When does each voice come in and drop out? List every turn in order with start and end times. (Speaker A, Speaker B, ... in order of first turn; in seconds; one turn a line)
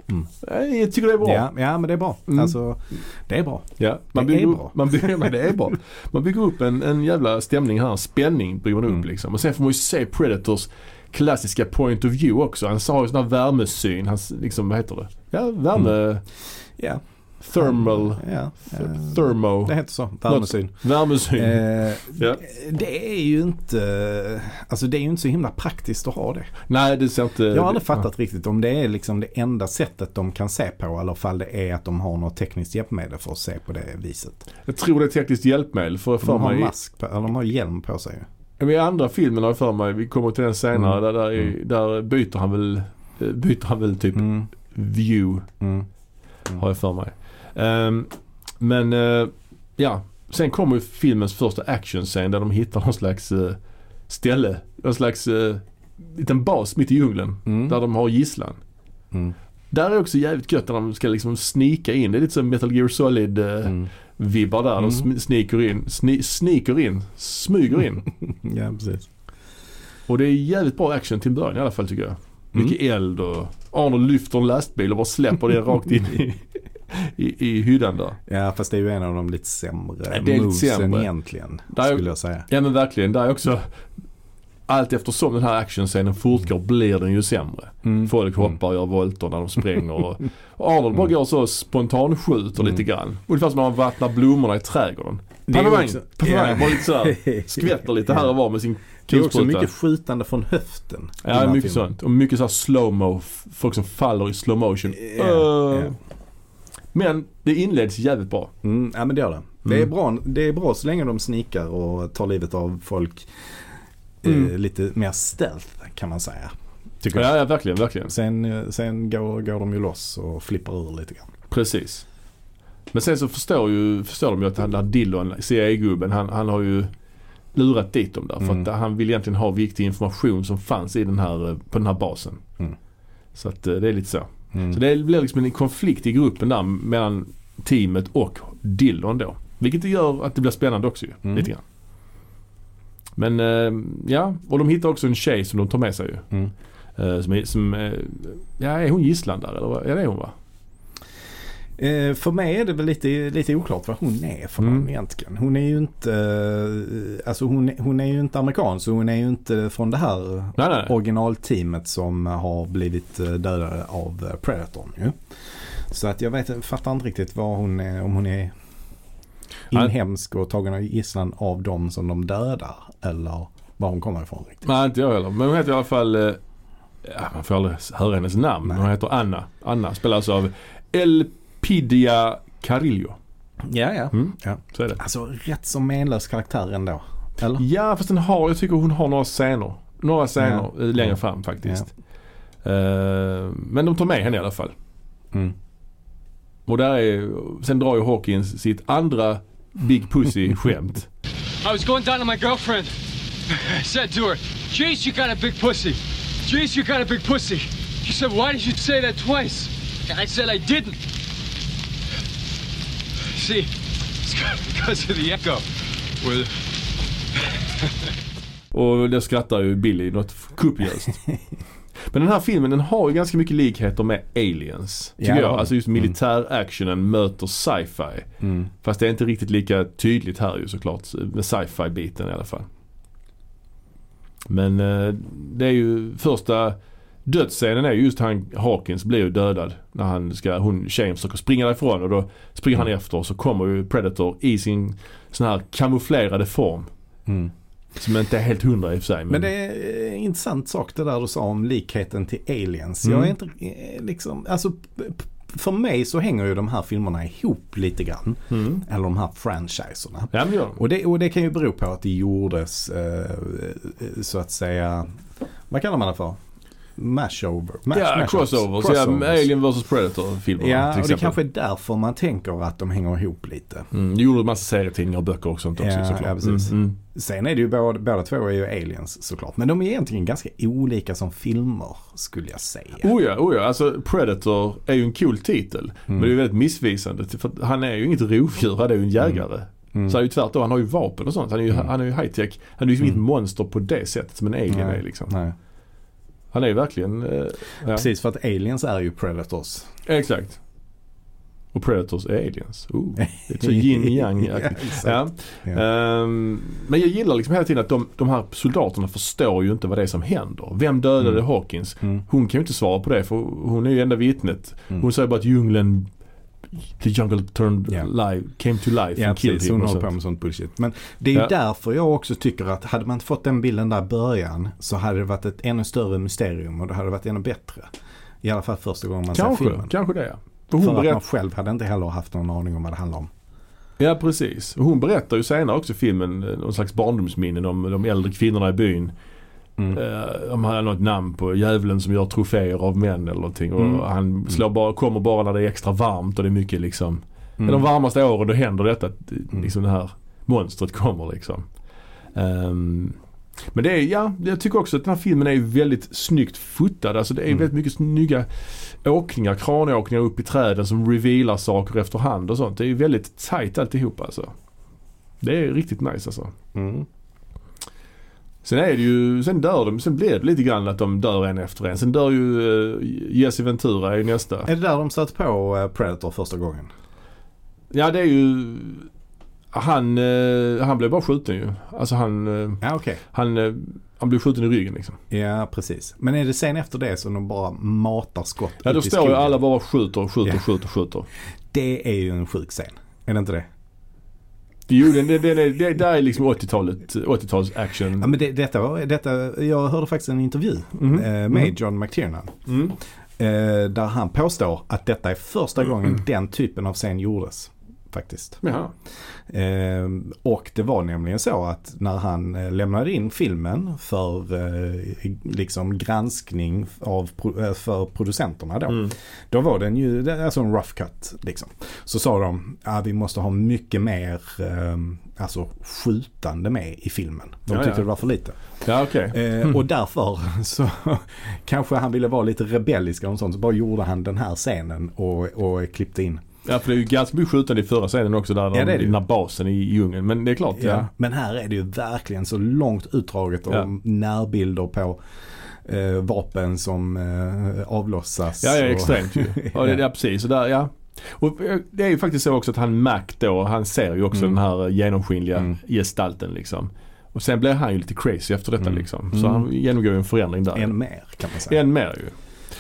Speaker A: 0.4-1.5
Speaker B: 1.2-5.3
Speaker A: 2.3-2.5
Speaker A: 3.8-16.3
Speaker B: 16.8-17.0
Speaker A: 17.4-19.8
Speaker B: 17.6-26.5
Speaker A: 20.3-22.4
Speaker A: 26.7-28.1
Speaker B: 27.5-34.5
Speaker A: 34.7-36.7
Speaker B: 36.2-38.3
Speaker A: 38.6-45.5
Speaker B: 44.2-44.5
Speaker B: 45.6-45.9
Speaker A: 46.6-58.6
Speaker B: 57.5-57.8
Speaker A: 59.7-68.1
Speaker B: 64.8-65.1
Speaker B: 68.2-69.1
Speaker A: 70.1-78.2
Speaker B: 78.3-82.5
Speaker A: 80.1-81.1
Speaker A: 81.7-83.7
Speaker A: 84.7-99.7
Speaker B: 87.8-88.6
Speaker B: 95.5-98.3
Speaker B: 99.1-101.9
Speaker A: 101.2-106.0
Speaker B: 105.0-105.9
Speaker A: 106.9-108.5
Speaker B: 108.6-113.3
Speaker B: 114.2-117.4
Speaker A: 117.1-118.1
Speaker B: 118.1-121.3
Speaker A: 121.5-122.0
Speaker A: 122.9-126.9
Speaker A: 127.5-132.4
Speaker B: 128.4-128.7
Speaker A: 133.3-141.6
Speaker B: 134.5-134.8
Speaker A: 143.2-146.2
Speaker A: 147.0-150.3
Speaker B: 151.8-168.5
Speaker A: 154.6-154.9
Speaker A: 160.6-160.9
Speaker B: 169.7-174.7
Speaker A: 174.6-176.4
Speaker A: 177.0-183.2
Speaker B: 183.6-187.6
Speaker A: 184.1-185.0
Speaker A: 187.6-191.9
Speaker B: 190.4-191.9
Speaker A: 192.6-194.7
Speaker A: 196.7-201.1
Speaker C: 201.6-202.9
Speaker C: 203.5-211.0
Speaker C: 213.3-215.6
Speaker C: 216.2-216.5
Speaker A: 218.7-221.2
Speaker A: 222.1-228.3
Speaker B: 225.2-226.1
Speaker B: 228.4-228.7
Speaker A: 228.8-232.7
Speaker A: 234.5-246.9
Speaker B: 247.3-247.5
Speaker A: 248.0-249.5
Speaker B: 249.3-265.1
Speaker A: 253.0-253.3
Speaker A: 258.5-258.8
Speaker A: 260.3-260.8
Speaker B: 265.7-266.4
Speaker B: 267.0-269.5
Speaker A: 267.9-271.4
Speaker B: 270.6-273.9
Speaker A: 273.9-277.0
Speaker B: 275.8-283.1
Speaker A: 283.0-295.4
Speaker B: 294.7-295.6
Speaker A: 296.5-298.1
Speaker B: 297.9-299.9
Speaker A: 300.1-300.6
Speaker A: 301.7-316.1
Speaker B: 303.2-305.8
Speaker A: 316.9-320.1
Speaker B: 319.2-327.9
Speaker B: 328.4-329.9
Speaker A: 329.3-331.2
Speaker B: 330.8-333.3
Speaker A: 334.0-339.1
Speaker A: 339.9-351.7
Speaker B: 343.8-344.0
Speaker B: 347.6-347.9
Speaker A: 352.4-353.2
Speaker A: 353.7-364.5
Speaker A: 365.4-366.5
Speaker B: 366.8-367.1
Speaker A: 368.6-374.7
Speaker B: 374.7-376.9
Speaker A: 377.9-379.1
Speaker A: 379.7-385.2
Speaker B: 382.8-383.2
Speaker B: 385.3-389.6
Speaker A: 388.8-391.3
Speaker B: 391.7-393.7
Speaker A: 394.9-398.4
Speaker B: 398.2-402.5
Speaker A: 401.0-401.7
Speaker A: 402.7-403.0
Speaker B: 403.4-408.6
Speaker A: 408.6-408.9
Speaker B: 409.5-428.6
Speaker A: 418.9-419.1
Speaker A: 427.7-428.1
Speaker A: 428.8-429.8
Speaker B: 429.3-436.4
Speaker A: 436.6-441.1
Speaker B: 438.7-439.2
Speaker B: 440.8-450.0
Speaker A: 448.6-460.9
Speaker B: 458.8-459.7
Speaker B: 460.8-461.8
Speaker A: 461.7-462.3